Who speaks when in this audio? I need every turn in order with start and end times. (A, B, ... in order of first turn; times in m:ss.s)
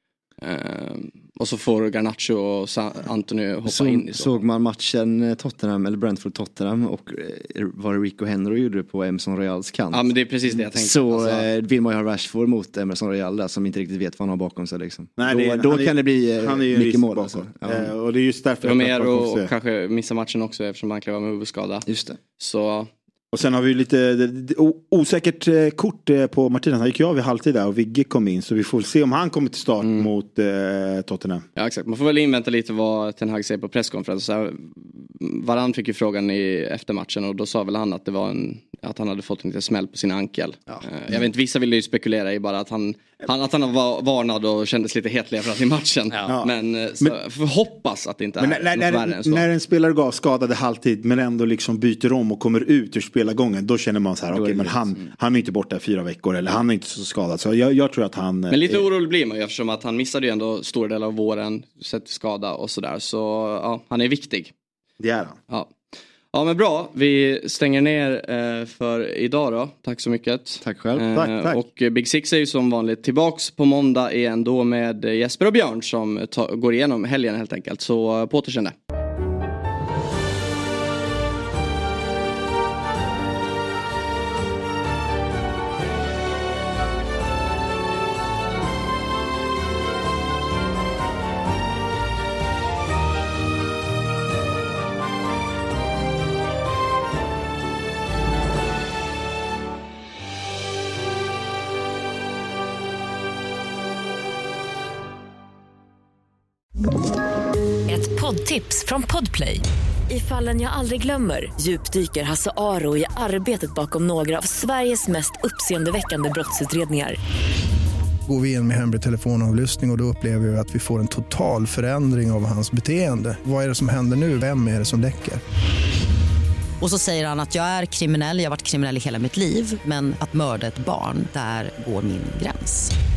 0:00.4-0:04.4 A
0:03.6-0:17.9 B
0:09.9-0:11.5 A
0:15.2-0:19.5 C
0:18.6-0:21.9 A
0:21.9-0:22.2 B
0:22.4-0:22.9 A
0:23.3-0:31.4 C
0:29.8-0:30.1 A
0:31.6-0:49.4 A
0:46.3-0:47.1 C
0:48.4-0:58.8 C
0:54.3-0:54.8 B
0:58.5-1:04.5 A
1:05.0-1:05.4 C
1:06.3-1:18.8 A
1:10.6-1:11.1 B
1:11.1-1:11.6 C
1:47.9-1:57.2 D
1:58.3-2:05.4 E
2:06.8-2:12.9 F